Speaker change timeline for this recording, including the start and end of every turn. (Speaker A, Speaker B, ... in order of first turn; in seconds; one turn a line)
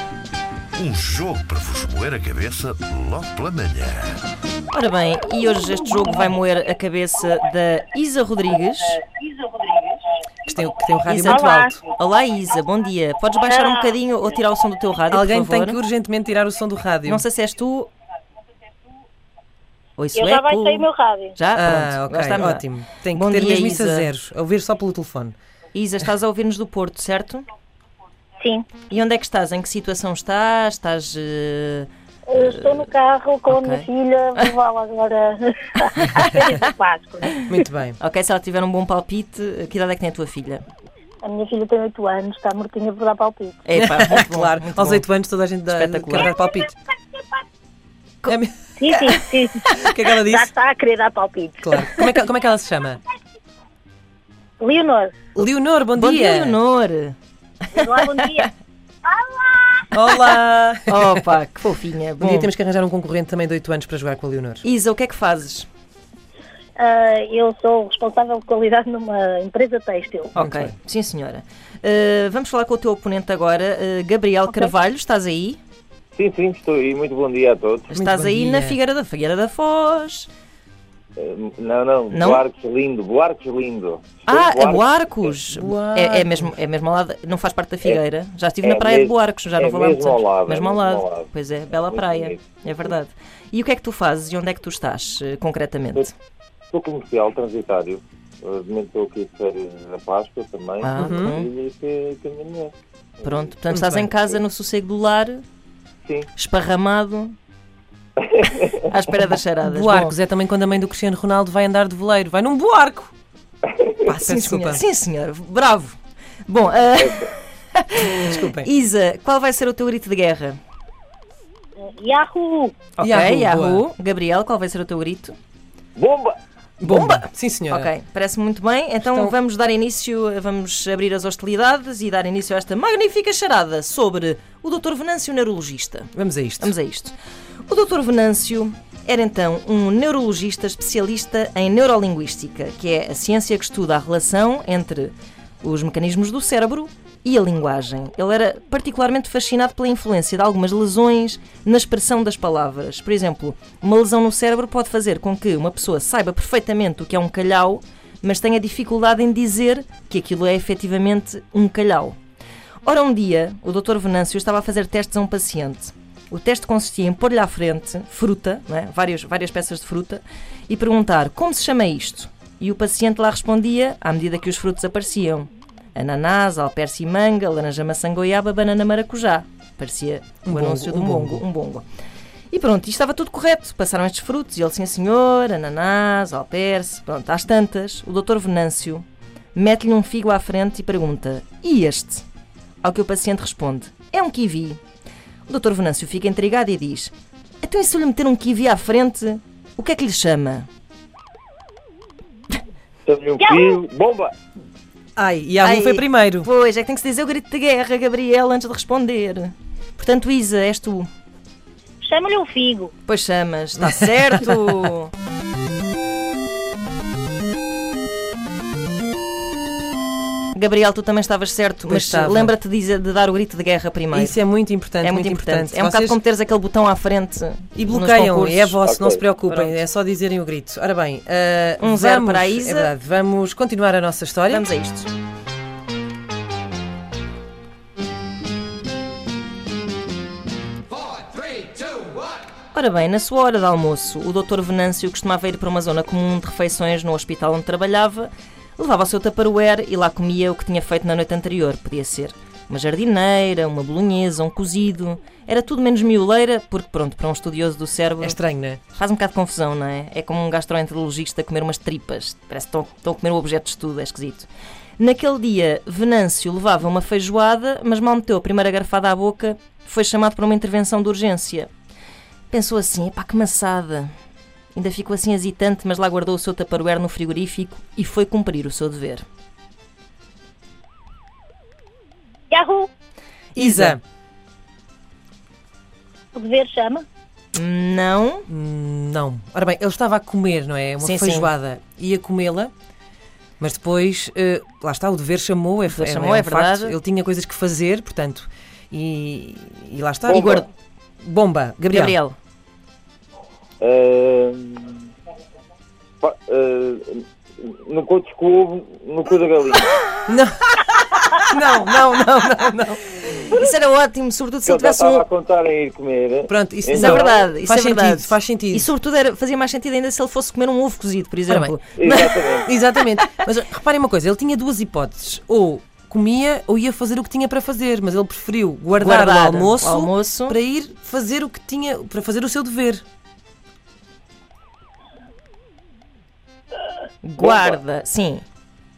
Speaker A: 0.7-4.2
Speaker B: 4.7-9.0
Speaker C: 10.5-11.8
Speaker B: 11.1-11.4
Speaker D: 11.2-11.8
Speaker B: 12.0-15.8
Speaker D: 13.5-13.9
Speaker C: 15.1-17.2
Speaker B: 17.1-17.9
Speaker B: 20.0-24.1
Speaker D: 20.1-21.4
Speaker C: 21.5-25.4
Speaker B: 25.7-27.5
Speaker D: 28.4-28.7
Speaker B: 28.9-31.9
Speaker D: 32.3-37.5
Speaker B: 32.4-32.9
Speaker B: 33.5-33.9
Speaker B: 35.9-36.3
Speaker C: 37.5-38.0
Speaker B: 38.0-40.6
Speaker D: 41.2-43.6
Speaker B: 43.7-45.0
Speaker C: 43.8-46.7
Speaker B: 45.7-46.3
Speaker C: 48.3-50.5
Speaker D: 48.8-51.8
Speaker C: 51.6-53.0
Speaker D: 54.6-55.2
Speaker C: 55.4-56.6
Speaker B: 56.0-57.2
Speaker D: 57.7-58.5
Speaker B: 57.9-58.3
Speaker D: 59.0-59.9
Speaker C: 59.9-61.2
Speaker B: 60.9-62.5
Speaker C: 62.2-64.6
Speaker B: 64.6-65.7
Speaker D: 66.8-70.3
Speaker B: 70.3-75.6
Speaker C: 70.4-70.7
Speaker E: 76.2-77.9
Speaker B: 77.9-80.3
Speaker C: 77.9-78.8
Speaker E: 81.2-84.9
Speaker B: 82.1-82.4
Speaker B: 84.3-96.2
Speaker C: 85.5-86.5
Speaker E: 88.6-91.3
Speaker E: 91.9-92.7
Speaker E: 96.7-102.7
Speaker B: 100.8-101.5
Speaker C: 101.0-101.4
Speaker B: 103.2-105.4
Speaker C: 103.7-104.1
Speaker B: 106.3-107.4
Speaker E: 108.2-108.8
Speaker B: 108.8-110.2
Speaker C: 109.6-113.1
Speaker E: 113.7-114.0
Speaker B: 114.1-120.6
Speaker C: 114.2-114.8
Speaker E: 117.0-117.3
Speaker C: 118.1-118.7
Speaker D: 121.8-122.8
Speaker B: 123.0-125.3
Speaker C: 123.0-123.8
Speaker E: 126.0-126.4
Speaker C: 126.8-127.9
Speaker B: 126.8-137.2
Speaker C: 129.0-129.3
Speaker C: 136.2-136.7
Speaker B: 137.7-162.2
Speaker B: 162.8-181.9
Speaker C: 180.4-181.4
Speaker B: 182.5-192.2
Speaker B: 192.8-194.8
Speaker B: 195.5-200.7
Speaker E: 203.1-204.3
Speaker D: 203.4-203.8
Speaker C: 205.2-206.5
Speaker B: 205.6-211.1
Speaker D: 212.0-212.9
Speaker B: 213.1-215.1
Speaker C: 213.8-214.5
Speaker B: 220.5-224.4
Speaker C: 221.8-222.5
Speaker C: 224.1-226.2
Speaker B: 225.0-228.8
Speaker C: 227.8-234.7
Speaker E: 228.8-229.2
Speaker B: 229.5-229.8
Speaker B: 231.8-232.9
Speaker B: 234.5-235.1
Speaker B: 242.7-258.4
Speaker C: 258.2-258.8
Speaker B: 258.9-271.7
Speaker B: 272.5-274.1
Speaker B: 274.7-279.2
Speaker D: 282.5-282.9
Speaker B: 283.6-284.0
Speaker C: 283.6-284.0
Speaker D: 286.3-287.1
Speaker B: 287.5-288.5
Speaker C: 288.5-292.7
Speaker B: 291.0-291.5
Speaker C: 293.6-300.6
Speaker B: 295.9-297.0
Speaker E: 300.2-300.7
Speaker B: 300.3-300.7
Speaker C: 301.2-302.2
Speaker B: 301.9-302.4
Speaker E: 303.8-305.1
Speaker E: 306.2-310.0
Speaker C: 310.3-313.5
Speaker B: 313.5-315.2
Speaker E: 314.7-317.2
Speaker C: 316.5-318.9
Speaker B: 316.9-322.6
Speaker C: 321.5-321.7
Speaker E: 322.0-322.7
Speaker C: 322.6-333.0
Speaker B: 329.0-330.6
Speaker B: 337.2-338.4
Speaker E: 337.4-337.8